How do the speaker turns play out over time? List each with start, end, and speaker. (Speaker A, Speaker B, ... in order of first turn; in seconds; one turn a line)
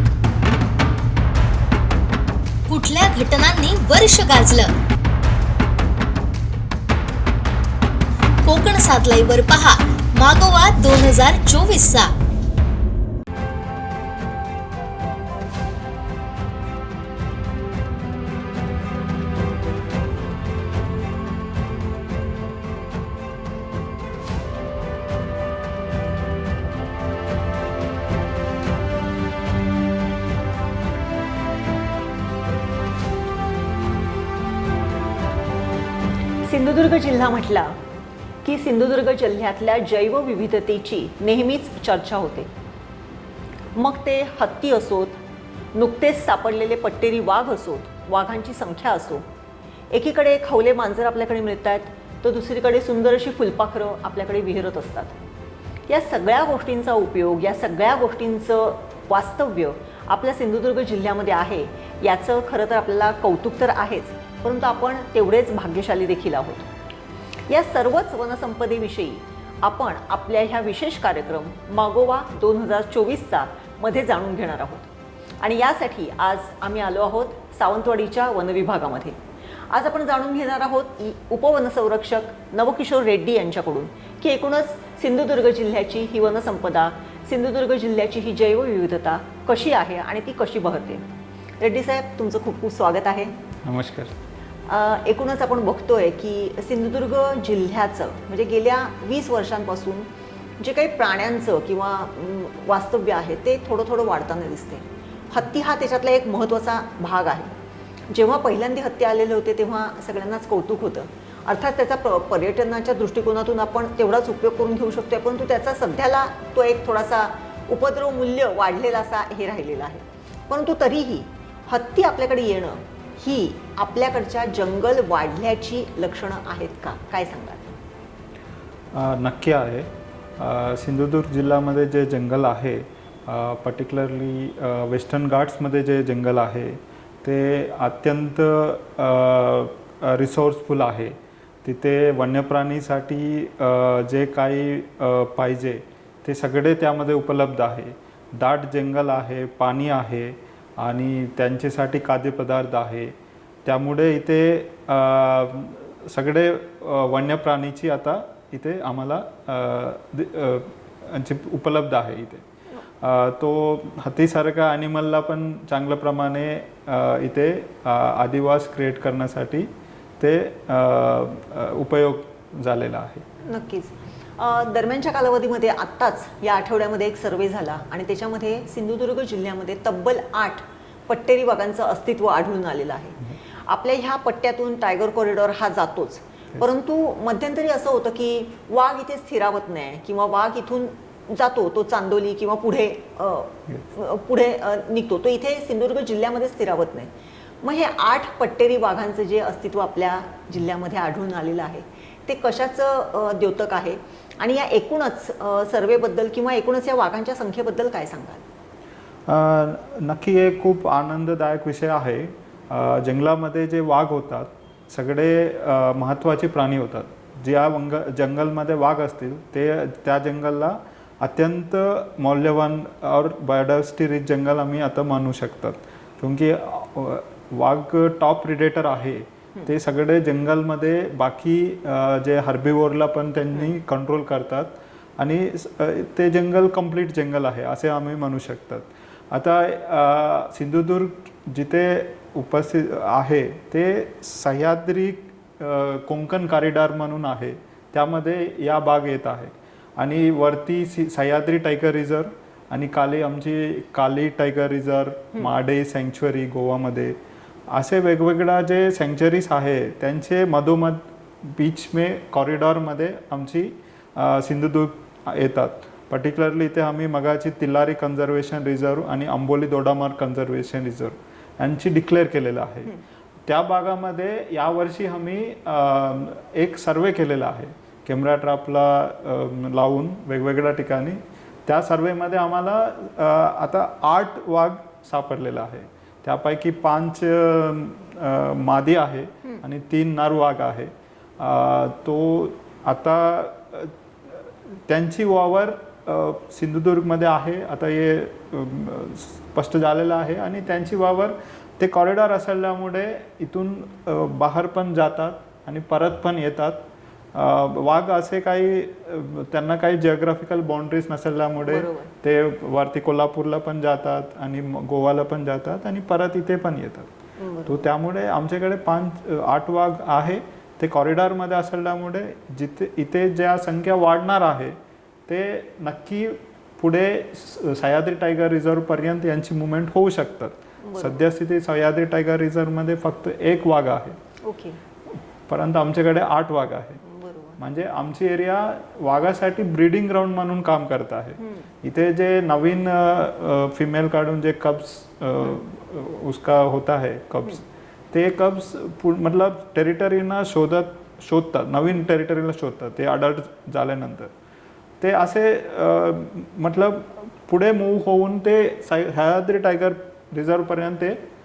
Speaker A: 2.7-4.7
Speaker A: 8.4-12.1
Speaker B: 36.4-37.8
Speaker B: 38.4-42.5
Speaker B: 43.7-45.2
Speaker B: 45.7-49.2
Speaker B: 49.9-55.2
Speaker B: 55.9-66.7
Speaker B: 67.5-74.9
Speaker B: 75.4-91.1
Speaker B: 91.6-93.3
Speaker C: 93.6-94.1
Speaker B: 94.7-100.1
Speaker B: 100.6-107.5
Speaker B: 108.1-127.8
Speaker C: 128.9-162.4
Speaker C: 163.0-173.3
Speaker B: 173.4-197.1
Speaker B: 197.6-208.4
Speaker C: 209.3-257.2
Speaker C: 257.7-272.9
Speaker C: 273.5-317.1
Speaker B: 311.6-312.1
Speaker B: 317.4-317.8
Speaker C: 317.6-334.2
Speaker B: 330.8-331.2
Speaker B: 334.4-334.8
Speaker C: 335.1-337.0
Speaker B: 337.0-337.6
Speaker C: 337.6-354.3
Speaker B: 341.4-341.7
Speaker C: 355.0-361.2